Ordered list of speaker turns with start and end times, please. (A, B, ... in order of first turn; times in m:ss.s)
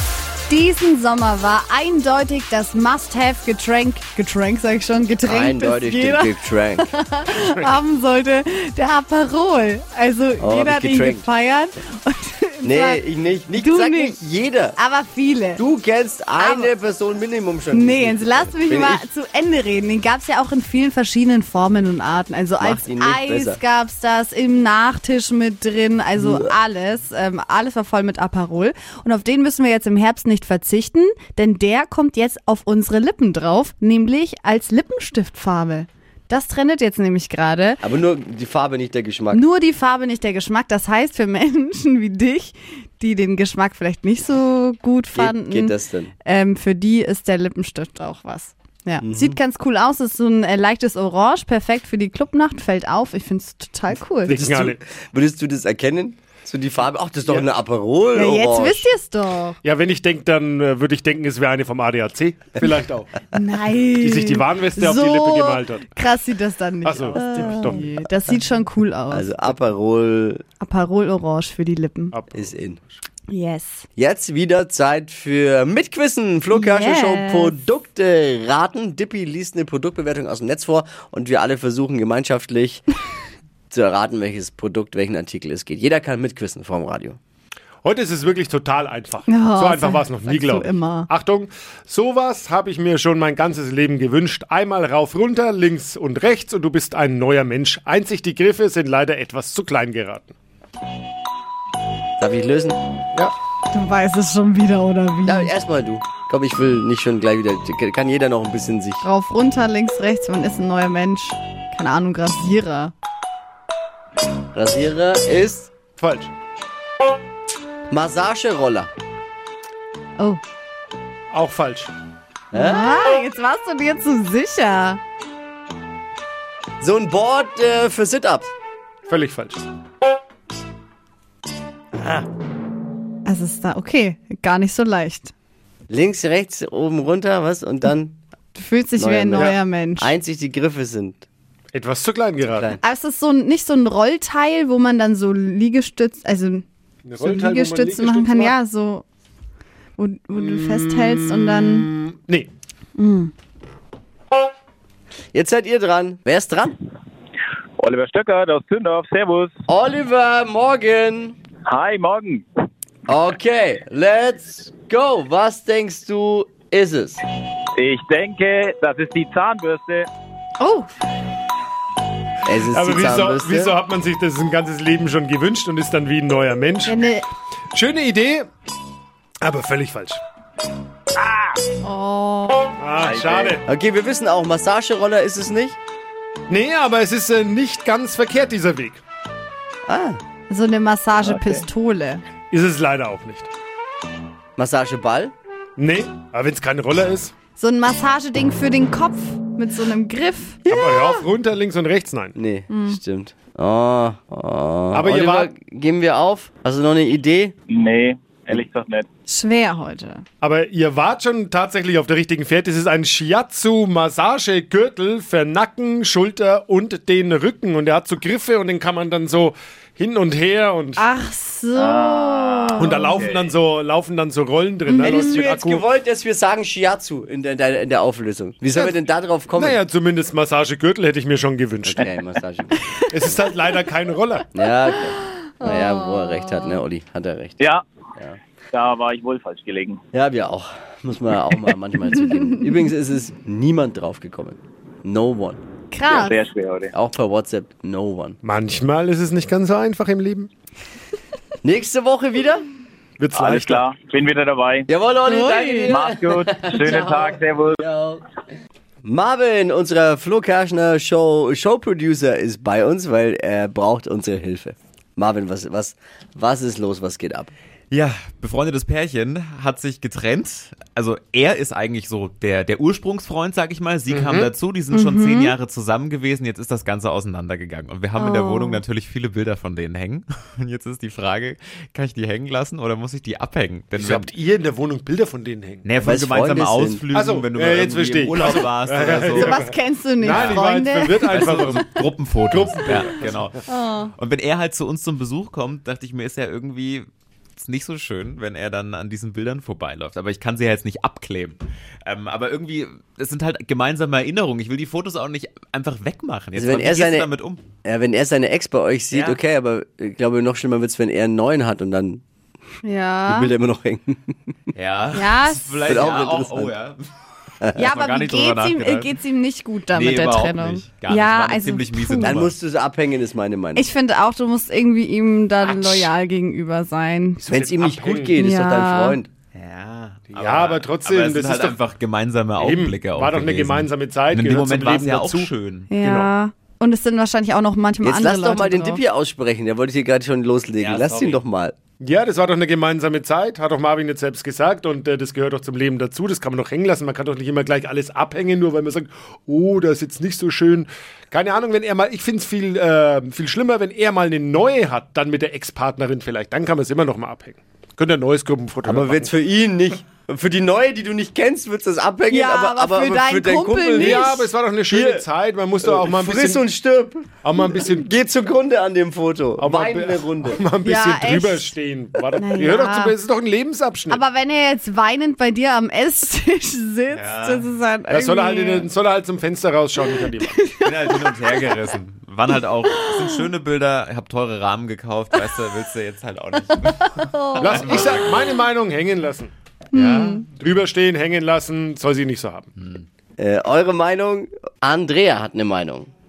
0:00.5-0:06.3 A
0:05.2-0:06.9 B
0:06.8-0:14.2 A
0:10.4-0:11.3 B
0:12.6-0:14.8 B
0:14.8-0:15.6 A
0:15.6-0:19.1 B
0:16.4-0:16.7 A
0:17.7-0:37.8 A
0:22.6-0:23.6 B
0:26.2-0:26.5 B
0:37.8-0:39.4 B
0:39.3-0:54.4 A
0:45.1-0:46.1 B
0:49.0-0:49.4 B
0:54.2-0:54.8 C
0:54.3-0:58.9 B
0:58.1-0:59.6 A
0:59.6-1:03.1 C
1:03.3-1:09.3 A
1:04.0-1:05.9 C
1:06.8-1:07.9 C
1:09.1-1:10.4 B
1:10.6-1:12.1 A
1:12.1-1:12.6 C
1:12.3-1:12.8 B
1:13.3-1:13.8 A
1:14.0-1:22.8 B
1:16.5-1:17.6 A
1:23.7-1:27.2 B
1:27.8-1:40.3 C
1:29.3-1:31.1 A
1:42.2-1:42.8 B
1:43.7-1:45.5 A
1:45.2-1:49.0 B
1:49.0-1:52.9 A
1:54.5-1:55.7 B
1:56.0-1:56.3 C
1:57.9-1:58.9 B
2:01.3-2:01.9 C
2:02.5-2:03.0 B
2:02.5-2:05.0 A
2:06.8-2:08.5 B
2:09.1-2:09.6 C
2:13.2-2:15.3 A
2:15.9-2:18.2 B
2:18.5-2:20.1 A
2:19.0-2:21.3 B
2:21.7-2:22.7 C
2:22.4-2:22.8 B
2:22.8-2:26.6 A
2:27.0-2:28.5 C
2:27.2-2:29.0 A
2:30.0-2:31.9 A
2:30.3-2:32.5 C
2:33.0-2:33.3 A
2:35.3-2:36.8 B
2:37.8-2:39.5 D
2:39.7-2:41.4 B
2:41.6-2:42.4 D
2:43.1-2:47.2 B
2:47.8-2:50.1 D
2:50.6-2:50.9 A
2:52.4-2:53.7 B
2:52.7-2:57.0 C
2:56.8-2:57.2 A
2:57.7-2:58.5 C
2:59.4-3:00.2 C
3:01.2-3:01.6 D
3:01.8-3:02.7 A
3:02.8-3:03.6 C
3:03.0-3:03.6 D
3:03.6-3:05.8 B
3:06.5-3:09.0 C
3:09.9-3:10.2 B
3:10.5-3:12.2 A
3:12.5-3:13.5 C
3:14.6-3:15.3 B
3:15.8-3:17.3 C
3:17.6-3:21.2 A
3:20.6-3:22.4 C
3:22.4-3:27.5 B
3:22.7-3:23.0 A
3:24.9-3:25.5 C
3:27.7-3:29.1 D
3:29.3-3:30.2 A
3:30.4-3:41.0 C
3:41.0-3:43.2 A
3:41.7-3:43.6 D
3:42.7-3:45.8 C
3:44.9-3:45.4 A
3:45.0-3:49.8 B
3:48.7-3:52.0 C
3:51.8-3:53.4 B
3:53.1-3:54.5 C
3:54.5-3:57.6 B
3:55.5-3:56.8 A
3:57.6-3:57.8 D
3:58.7-4:00.0 D
4:00.1-4:05.6 B
4:05.9-4:06.4 A
4:06.1-4:06.9 D
4:06.9-4:08.4 B
4:08.4-4:10.5 C
4:11.6-4:12.7 B
4:13.2-4:13.9 C
4:13.3-4:14.8 D
4:14.9-4:18.2 B
4:15.3-4:16.0 A
4:15.8-4:17.8 D
4:19.0-4:27.5 B
4:27.9-4:44.3 E
4:34.1-4:34.5 C
4:34.9-4:35.6 A
4:38.2-4:38.8 A
4:44.0-4:45.9 C
4:45.8-4:49.6 E
4:46.0-4:47.0 B
4:47.1-4:53.5 C
4:49.3-4:51.4 A
4:50.2-4:50.6 E
4:51.3-4:53.6 E
4:53.7-4:54.1 A
4:54.2-5:07.6 E
5:06.6-5:07.3 B
5:07.8-5:12.2 B
5:09.1-5:09.4 E
5:12.8-5:13.5 A
5:13.3-5:14.4 B
5:14.7-5:17.0 E
5:15.2-5:15.8 A
5:15.8-5:16.7 B
5:17.6-5:17.9 B
5:17.7-5:19.2 E
5:17.8-5:22.4 A
5:19.9-5:22.5 E
5:22.2-5:23.9 B
5:23.7-5:27.4 A
5:27.4-5:28.3 C
5:27.5-5:29.3 B
5:28.4-5:29.2 A
5:29.5-5:35.9 E
5:30.3-5:31.8 C
5:32.6-5:36.3 C
5:35.9-5:39.0 A
5:38.0-5:41.7 B
5:40.8-5:41.4 E
5:42.0-5:59.3 C
5:58.8-6:04.3 B
6:02.3-6:04.5 A
6:04.0-6:06.6 C
6:04.9-6:05.2 B
6:05.8-6:10.6 B
6:07.4-6:08.1 C
6:09.6-6:14.2 C
6:10.8-6:11.7 A
6:12.4-6:13.2 A
6:14.1-6:18.9 A
6:17.1-6:17.7 E
6:18.1-6:20.6 C
6:20.4-6:21.8 A
6:20.8-6:28.6 E
6:23.0-6:23.3 A
6:26.8-6:28.0 A
6:27.6-6:29.5 C
6:29.9-6:30.4 A
6:29.9-6:30.4 E
6:30.5-6:32.7 C
6:32.8-6:33.1 E
6:33.4-6:36.1 B